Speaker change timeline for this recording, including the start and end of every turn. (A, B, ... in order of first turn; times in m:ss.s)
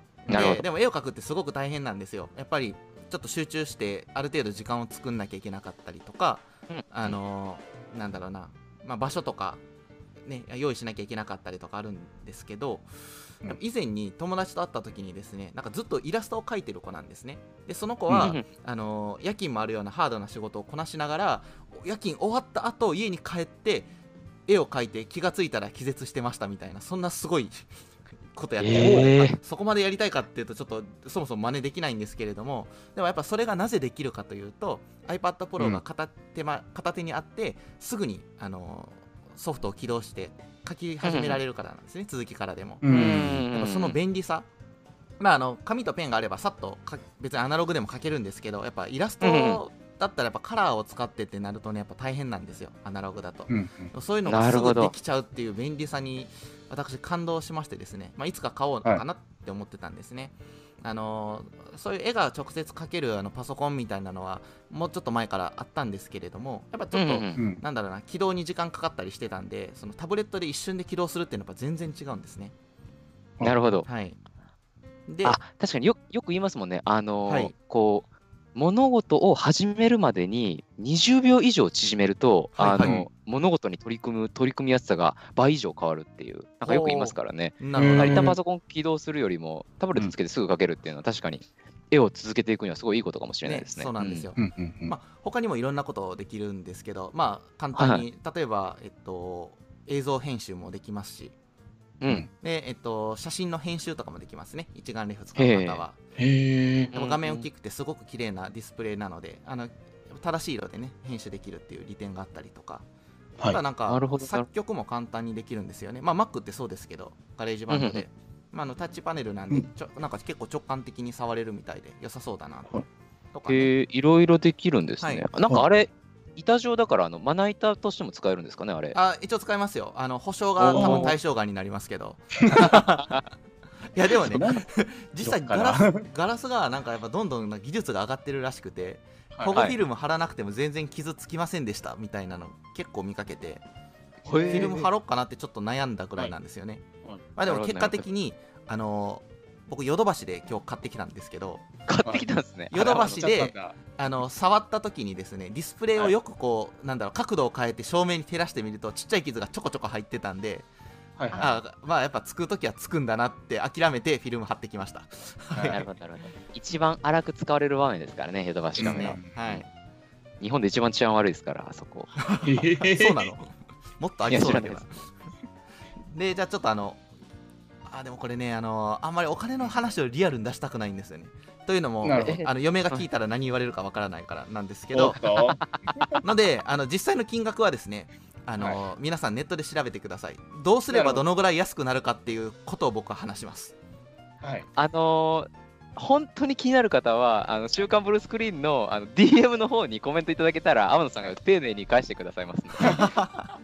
0:00.3-0:00.6 A
0:00.3-0:09.6 B
0:00.3-0:00.6 C
0:06.7-0:07.1 C
0:10.2-0:12.9 B
0:13.4-0:23.9 B
0:18.1-0:18.4 A
0:18.2-0:18.4 C
0:24.5-0:27.7 B
0:28.3-0:44.5 B
0:28.6-0:29.4 C
0:28.7-0:29.1 A
0:41.0-0:41.4 C
0:42.8-0:43.4 A
0:42.9-0:44.0 C
0:45.2-1:12.5 B
0:49.2-0:49.6 C
0:53.5-0:53.9 A
0:54.3-0:54.9 C
1:06.9-1:07.4 C
1:07.4-1:07.6 A
1:13.4-1:13.9 C
1:13.9-1:14.2 B
1:15.1-1:15.4 B
1:15.2-1:34.3 C
1:17.3-1:17.5 B
1:22.6-1:23.0 B
1:22.8-1:23.1 A
1:26.6-1:28.4 B
1:27.8-1:28.4 A
1:33.4-1:41.3 B
1:34.4-1:34.9 A
1:37.8-1:38.0 C
1:42.0-1:42.3 C
1:42.4-1:46.0 B
1:45.4-1:45.8 C
1:46.2-1:46.9 A
1:46.9-1:52.8 B
1:46.9-1:47.5 C
1:53.5-2:02.8 B
1:53.9-1:54.5 C
1:57.7-1:58.0 C
2:03.3-2:03.7 B
2:03.5-2:09.0 C
2:08.9-2:13.1 B
2:10.6-2:11.1 C
2:10.6-2:11.2 A
2:12.4-2:12.7 A
2:13.0-2:13.2 C
2:13.9-2:23.6 B
2:14.2-2:14.7 A
2:15.2-2:16.0 A
2:19.3-2:19.6 A
2:19.5-2:19.8 C
2:24.3-2:24.9 C
2:24.3-2:24.7 A
2:24.4-2:26.8 B
2:27.4-2:31.6 B
2:27.4-2:28.0 C
2:31.9-2:33.1 C
2:32.1-2:33.8 A
2:32.7-2:40.7 B
2:41.2-2:41.6 A
2:41.3-2:45.8 B
2:45.5-2:45.8 A
2:45.7-2:49.6 C
2:48.8-2:49.4 A
2:48.8-2:49.7 B
2:50.4-2:52.1 C
2:52.2-2:55.0 B
2:52.4-2:53.3 A
2:54.3-2:54.8 C
2:56.1-2:57.0 B
2:57.9-3:05.2 B
3:02.0-3:02.4 A
3:02.2-3:03.0 C
3:04.9-3:06.2 A
3:05.3-3:06.2 C
3:06.2-3:13.7 B
3:10.9-3:11.2 A
3:14.4-3:14.7 A
3:14.8-3:23.1 C
3:22.8-3:23.5 B